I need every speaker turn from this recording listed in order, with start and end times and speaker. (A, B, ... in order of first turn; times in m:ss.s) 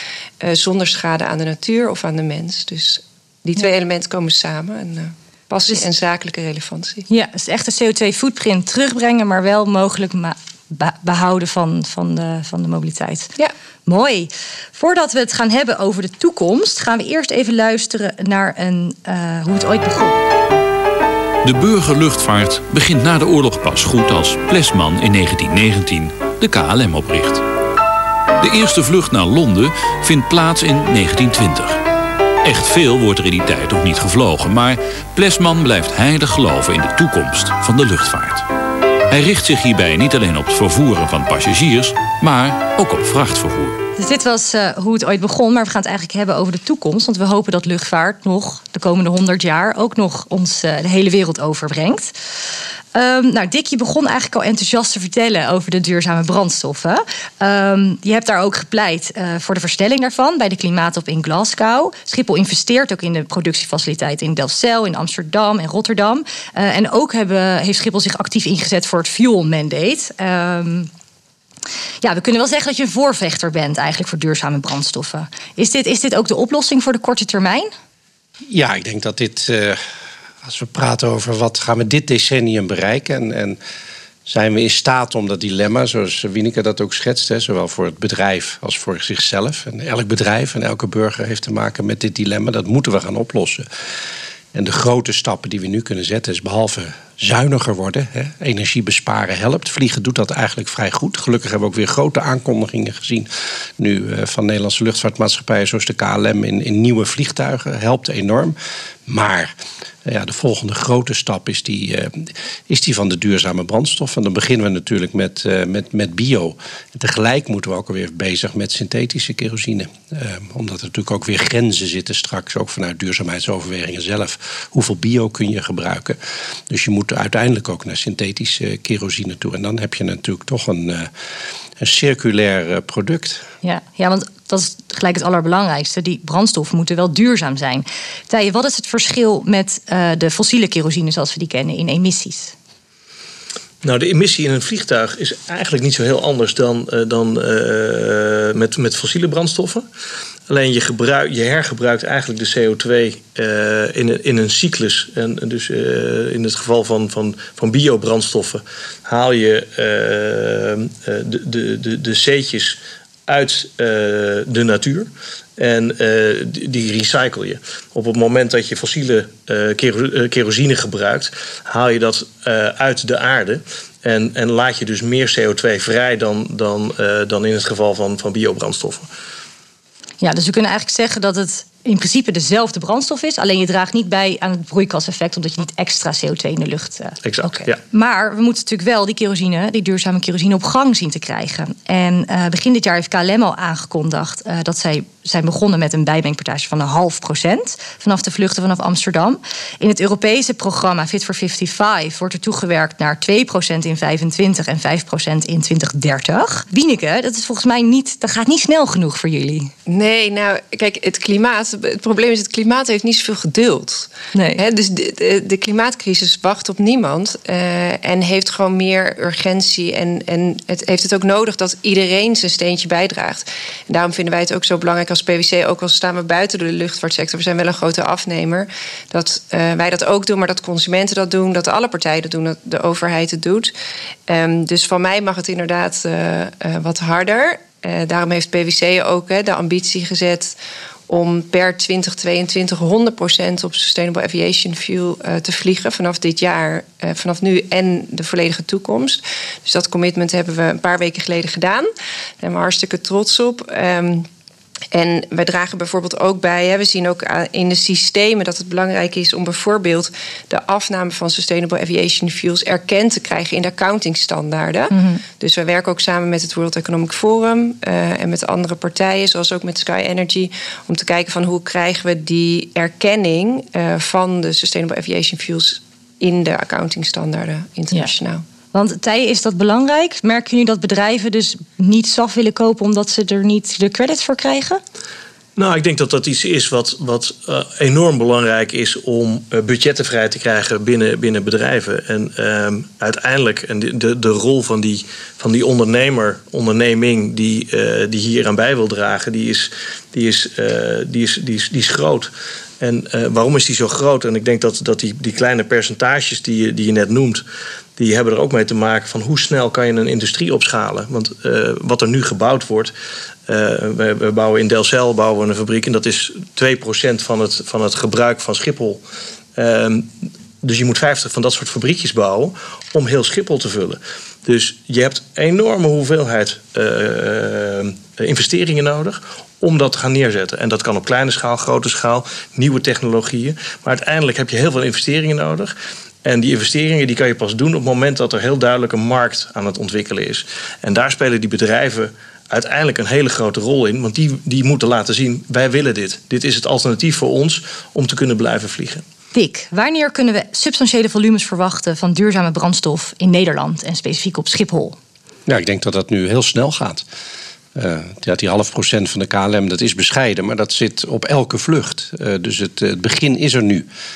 0:00.4-0:07.0 A
0:07.1-0:13.3 B
0:13.8-0:20.2 B
0:21.4-0:27.4 C
0:28.4-0:31.8 C
0:32.4-0:38.4 C
0:39.1-0:43.8 C
0:44.0-0:52.1 B
0:52.9-1:10.9 B
1:12.0-1:17.7 B
1:18.5-1:19.8 D
1:20.4-1:23.6 D
1:24.2-1:33.6 D
1:34.5-1:48.6 D
1:49.1-1:49.5 D
1:50.0-2:11.1 D
2:11.8-2:13.4 D
2:13.6-2:22.5 B
2:23.8-2:29.8 E
2:30.5-2:59.1 E
3:00.2-3:29.7 B
3:07.2-3:07.8 E
3:29.9-3:53.7 A
3:34.3-3:34.6 B
3:54.3-4:00.5 A
4:01.1-4:11.9 A
4:12.4-4:14.3 A
4:14.9-4:38.4 A
4:24.9-4:25.2 B
4:38.7-4:44.8 B
4:45.6-5:07.4 E
5:08.0-5:12.9 E
5:13.5-5:19.0 E
5:19.6-5:20.1 E
5:20.6-5:35.7 E
5:36.2-5:49.0 E
5:49.3-5:55.0 B
5:55.5-5:57.0 D
5:57.7-6:03.8 D